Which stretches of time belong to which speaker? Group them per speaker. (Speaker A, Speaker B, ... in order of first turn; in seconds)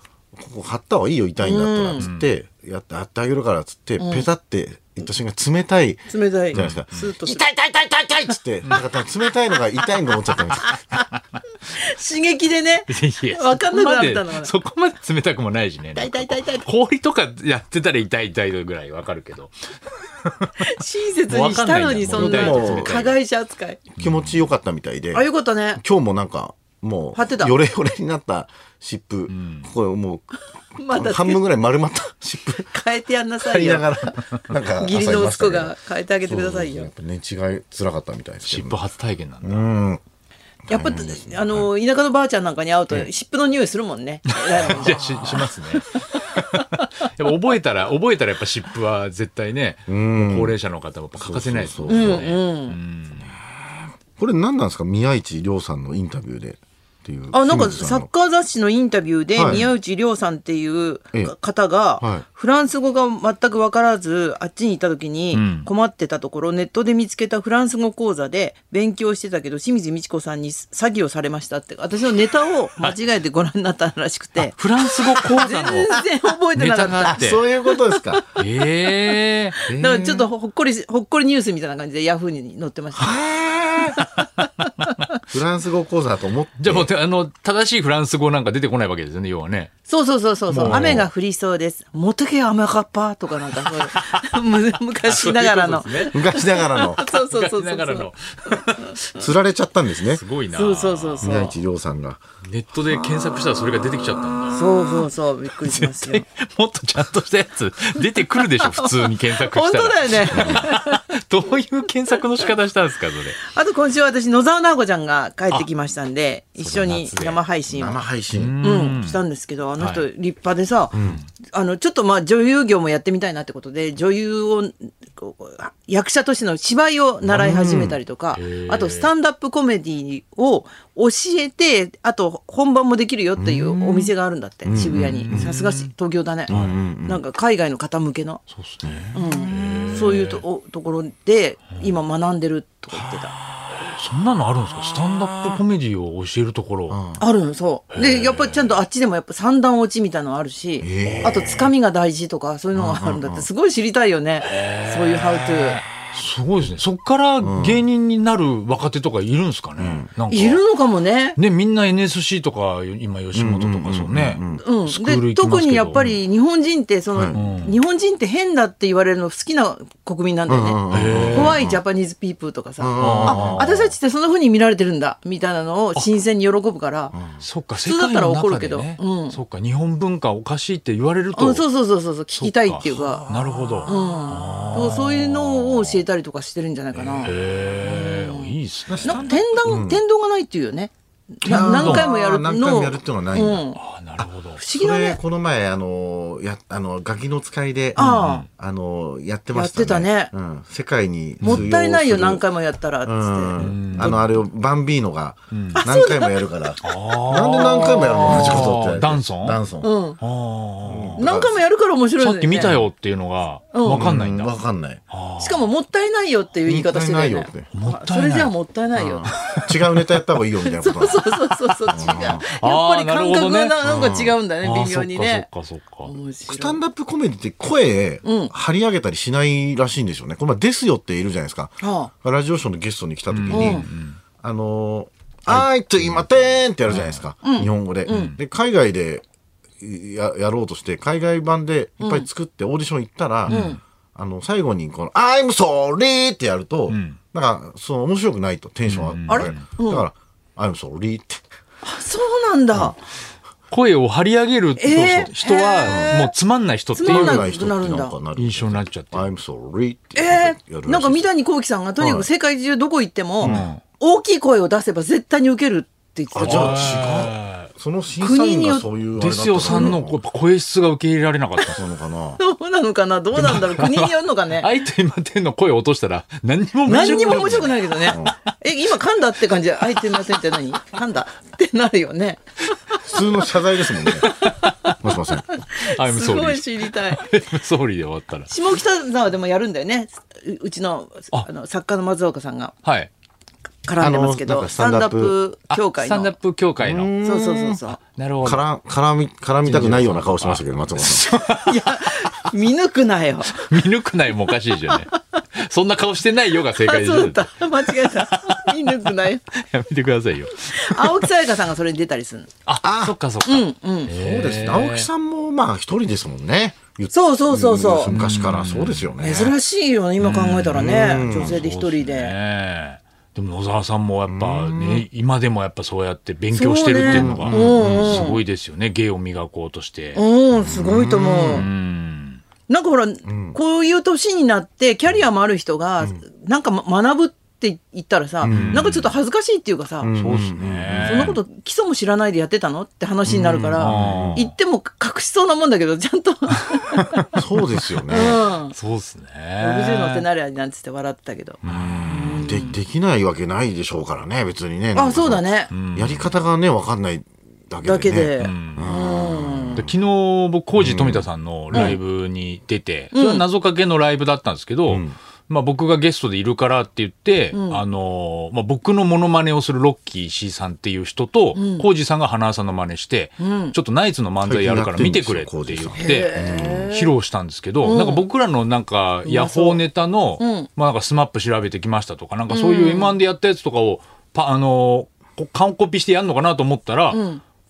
Speaker A: 0.4-10.8, 22.1-23.1, 24.0-30.3, 30.9-32.7, 33.4-38.8, 39.4-40.0, 40.7-41.7, 49.9-50.5, 51.1-52.3, 53.2-58.1, 59.4-59.7, 62.0-62.2, 77.0-78.3, 82.9-84.0, 85.3-86.9, 90.6-91.1, 96.1-97.0, 99.1-100.2, 101.2-102.2, 110.3-110.6, 117.7-118.6, 120.9-121.2, 127.2-128.0, 133.4-134.1, 134.6-135.5, 136.5-137.2, 138.8-139.1, 146.9-147.2, 150.8-151.7, 152.7-153.5, 157.4-157.8, 159.8-160.1, 163.3-164.6, 170.5-171.8, 172.8-173.8, 177.1-177.4, 182.8-183.9, 188.9-190.0, 191.4-193.6, 194.7-198.0, 198.5-202.4, 203.0-209.9, 210.8-211.6, 213.9-215.0, 216.6-217.7, 218.9-221.2, 221.9-222.4, 223.8-224.4, 226.5-233.9, 234.4-239.2, 239.8-251.4, 255.8-256.1, 257.0-261.3, 262.0-262.3, 263.4-263.7, 266.3-270.2, 271.7-272.4, 276.9-278.4, 283.0-284.3, 285.0-285.4, 294.0-295.4, 296.8-297.8, 298.4-301.3, 312.8-313.1, 314.1-319.6, 320.7-321.6, 324.2-325.1, 327.0-328.4, 330.5-331.7, 333.2-333.6, 338.4-338.9, 340.0-341.4, 343.2-344.5, 347.3-348.4, 352.4-359.9, 360.8-361.9, 364.9-365.1, 374.4-376.9
Speaker B: 1.4-2.0, 4.0-4.3, 6.1-7.5, 11.7-14.5, 15.9-16.7, 20.6-23.8, 25.1-25.8, 27.1-27.5, 30.8-31.4, 32.6-34.1, 34.8-36.9, 40.7-46.0, 51.9-52.8, 57.3-78.3, 79.1-83.3, 84.0-84.9, 89.9-98.8, 100.5-101.5, 104.5-106.2, 108.3-111.0, 113.4-118.0, 118.6-136.5, 137.1-138.4, 139.1-143.3, 147.2-155.8, 160.3-161.4, 164.6-177.2, 177.8-179.4, 181.3-183.2, 183.8-193.8, 194.6-195.2, 197.9-198.4, 199.5-200.3, 201.4-204.2, 205.7-206.7, 207.4-208.7, 209.8-210.2, 211.2-212.8, 213.7-214.1, 215.4-219.3, 220.7-225.5, 226.0-226.8, 228.2-228.5, 231.8-232.1, 233.5-233.8, 237.4-238.4, 242.0-242.3, 243.5-243.8, 249.3-250.1, 251.8-253.0, 254.8-256.3, 256.9-258.1, 260.1-267.0, 268.2-268.9, 269.7-270.0, 272.4-274.7, 276.9-282.4, 284.2-285.0, 285.5-287.2, 288.5-292.7, 293.8-296.3, 297.2-298.0, 301.5-303.8, 304.9-305.1, 306.8-309.4, 310.6-312.5, 313.4-314.1, 317.1-318.1, 319.2-322.3, 326.5-328.4, 330.1-331.6, 332.7-340.1, 341.0-347.4, 348.1-348.8, 349.6-352.7, 354.9-355.7, 357.8-359.8, 361.7-362.0, 363.1-363.4, 367.5-367.8, 371.5-371.9, 373.4-373.8, 375.9-377.1, 377.8-378.2, 379.2-379.8, 380.4-380.7, 382.5-383.2, 387.1-387.4
Speaker C: 2.0-2.3, 6.5-7.1, 10.5-11.1, 12.9-19.5, 20.2-20.7, 21.2-23.2, 24.0-24.4, 29.3-29.7, 38.4-39.7, 44.3-53.3, 59.4-59.7, 65.3-65.7, 74.4-77.4, 78.4-80.3, 86.6-89.7, 90.5-91.1, 93.6-94.4, 95.0-96.3, 97.0-99.3, 100.0-101.5, 102.5-105.1, 105.6-113.5, 116.6-117.4, 118.3-119.2, 119.8-120.0, 121.0-121.3, 128.3-129.1, 134.7-135.9, 136.5-136.8, 138.5-140.4, 143.7-147.0, 147.9-148.7, 151.0-151.6, 154.4-160.6, 161.3-166.1, 167.3-167.8, 170.9-171.6, 173.0-173.9, 177.4-181.7, 182.3-185.9, 186.9-189.4, 191.4-192.1, 193.8-194.6, 197.9-198.5, 201.4-201.7, 203.6-204.3, 205.5-205.8, 206.8-209.6, 210.2-211.2, 212.2-214.6, 215.1-215.7, 217.7-218.5, 219.3-220.1, 221.7-223.9, 224.6-226.1, 233.3-234.2, 235.5-237.2, 238.1-238.4, 243.5-243.8, 246.9-247.2, 248.8-249.7, 253.7-257.5, 258.3-259.3, 263.4-263.8, 266.4-267.7, 269.1-271.8, 273.3-278.2, 280.1-280.4, 284.0-284.9, 285.8-288.7, 292.8-293.1, 295.7-297.1, 298.1-298.6, 299.6-302.5, 303.5-311.3, 312.6-315.1, 318.1-319.1, 320.2-330.2, 331.5-332.4, 338.5-339.1, 340.1-341.4, 343.8-344.5, 348.3-350.2, 351.6-352.6, 355.7-356.3, 358.4-359.0, 359.7-387.2